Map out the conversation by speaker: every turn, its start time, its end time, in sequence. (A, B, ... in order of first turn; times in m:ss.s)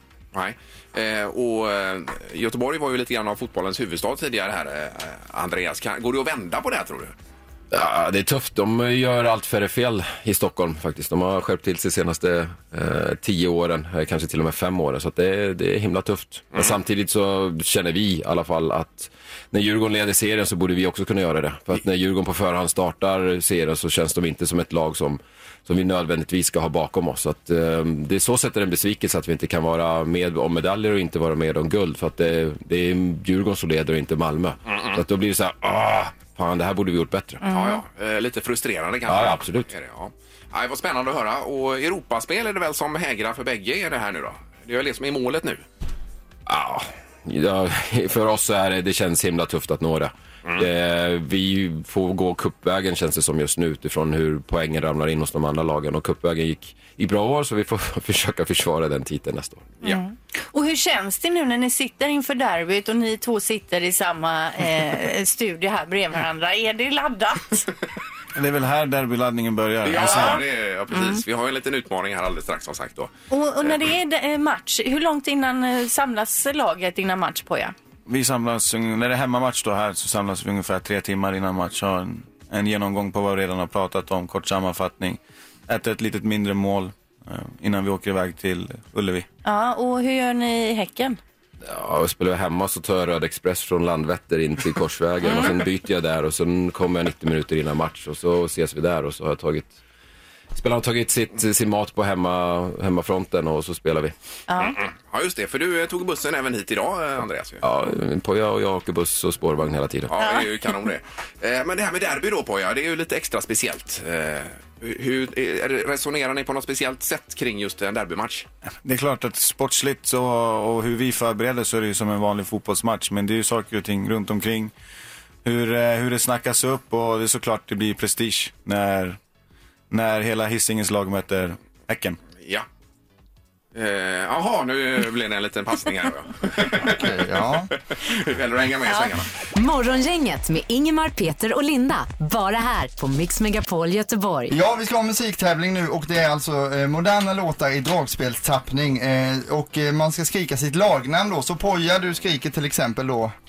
0:00.3-0:07.1 A
0:07.7-0:37.4 B
0:34.7-0:35.0 A
0:37.4-0:37.8 C
0:37.5-0:45.6 A
0:39.1-0:39.7 B
0:46.5-0:59.8 B
0:59.8-1:07.7 C
1:08.4-1:10.4 D
1:09.8-1:13.1 A
1:09.9-1:10.4 C
1:10.9-1:11.2 C
1:13.3-1:17.7 C
1:18.1-1:29.3 D
1:29.4-1:31.2 C
1:31.6-1:39.8 B
1:35.3-1:35.5 C
1:40.5-1:44.1 B
1:44.5-1:44.8 C
1:44.6-1:47.6 A
1:47.6-1:50.1 B
1:50.1-1:58.5 A
1:50.2-1:50.5 C
1:58.8-2:04.7 D
2:05.4-2:09.2 D
2:09.9-2:12.2 D
2:12.4-2:12.7 A
2:13.7-2:17.3 A
2:16.8-2:17.7 E
2:17.9-2:19.3 A
2:19.5-2:24.6 F
2:24.5-2:33.3 E